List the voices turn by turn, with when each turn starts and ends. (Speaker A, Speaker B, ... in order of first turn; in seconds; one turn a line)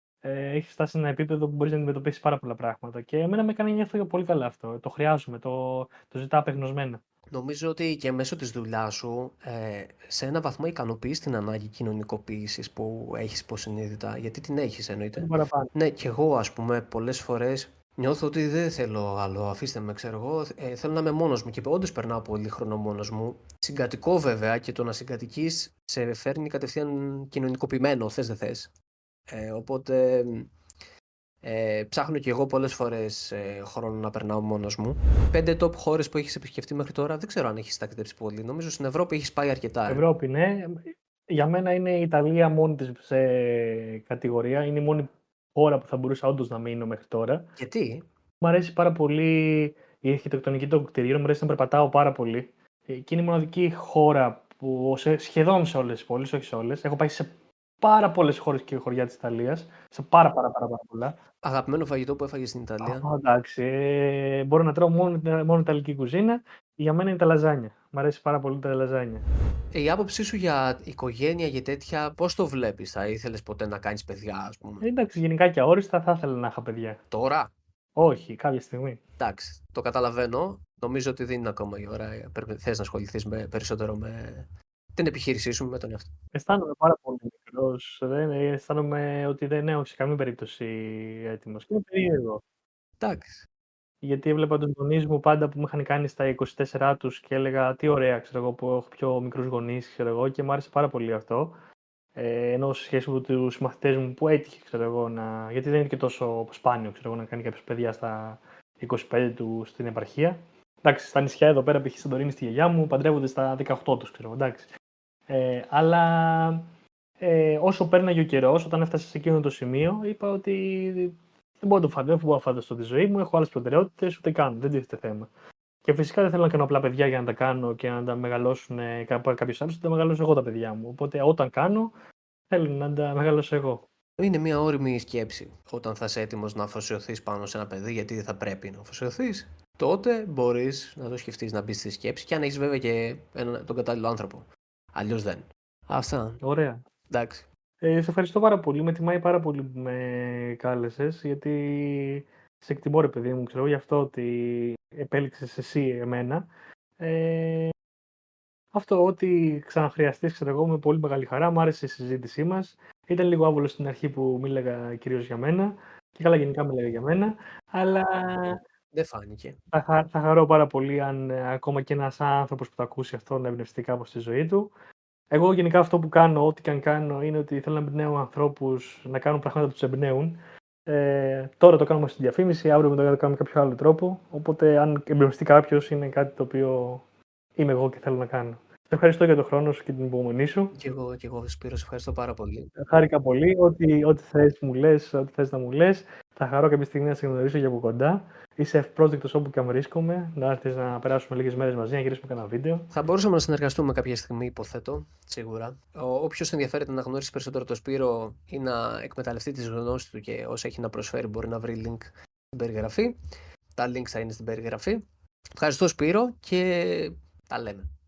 Speaker A: 0.2-7.0
Speaker B: 7.3-28.7
Speaker A: 15.2-15.7
Speaker B: 29.3-30.5
Speaker B: 31.4-40.0
Speaker A: 39.9-47.5
Speaker B: 47.6-48.0
Speaker A: 48.4-61.1
Speaker B: 61.4-63.1
Speaker A: 62.8-69.3
Speaker B: 69.7-74.8
Speaker A: 74.8-77.0
Speaker B: 77.1-77.5
Speaker A: 78.0-79.0
Speaker B: 79.2-86.1
Speaker A: 86.3-92.4
Speaker B: 93.0-93.5
Speaker A: 94.0-101.6
Speaker A: 102.2-114.7
Speaker A: 115.3-116.7
Speaker A: 117.2-125.3
Speaker A: 125.8-131.9
Speaker A: 132.5-133.9
Speaker B: 134.2-146.4
Speaker A: 146.4-146.8
Speaker B: 147.1-147.4
Speaker A: 147.8-156.5
Speaker A: 157.0-157.7
Speaker A: 158.7-168.6
Speaker B: 168.9-169.6
Speaker A: 169.7-174.7
Speaker A: 175.3-187.0
Speaker A: 187.6-190.7
Speaker B: 190.7-192.7
Speaker A: 192.8-202.9
Speaker B: 202.9-213.2
Speaker B: 213.8-215.0
Speaker B: 215.6-217.9